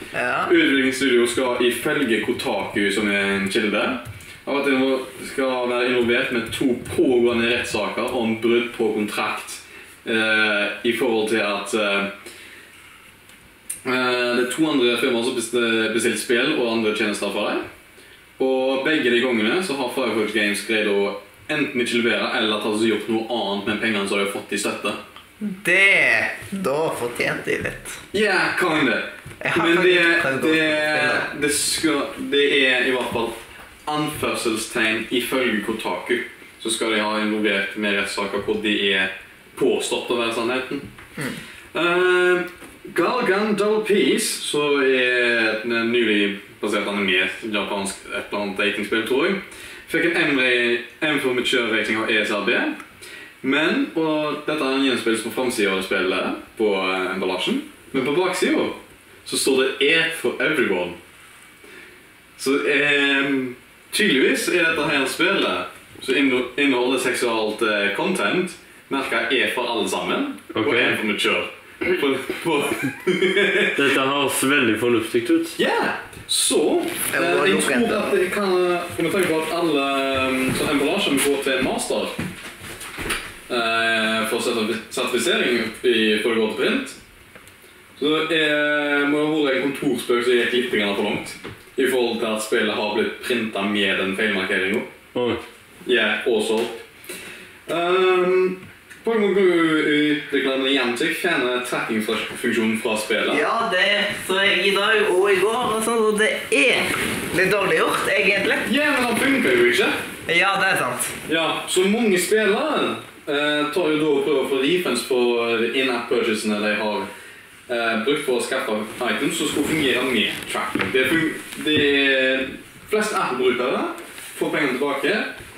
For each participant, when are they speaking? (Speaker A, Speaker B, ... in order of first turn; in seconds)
Speaker A: 0.1-0.6, 25.4-28.0, 29.4-31.3, 77.1-78.2, 103.3-108.7, 110.3-111.2
Speaker B: 0.5-12.1, 13.8-17.6, 18.4-25.0, 28.1-40.9, 41.7-52.8, 53.4-61.0, 62.4-73.8, 75.6-82.2, 83.5-87.0, 88.0-94.9, 95.8-96.8, 97.7-103.4, 108.7-110.0, 111.3-117.1, 117.7-125.3
Speaker C: 70.5-71.0, 73.7-75.6, 95.2-95.4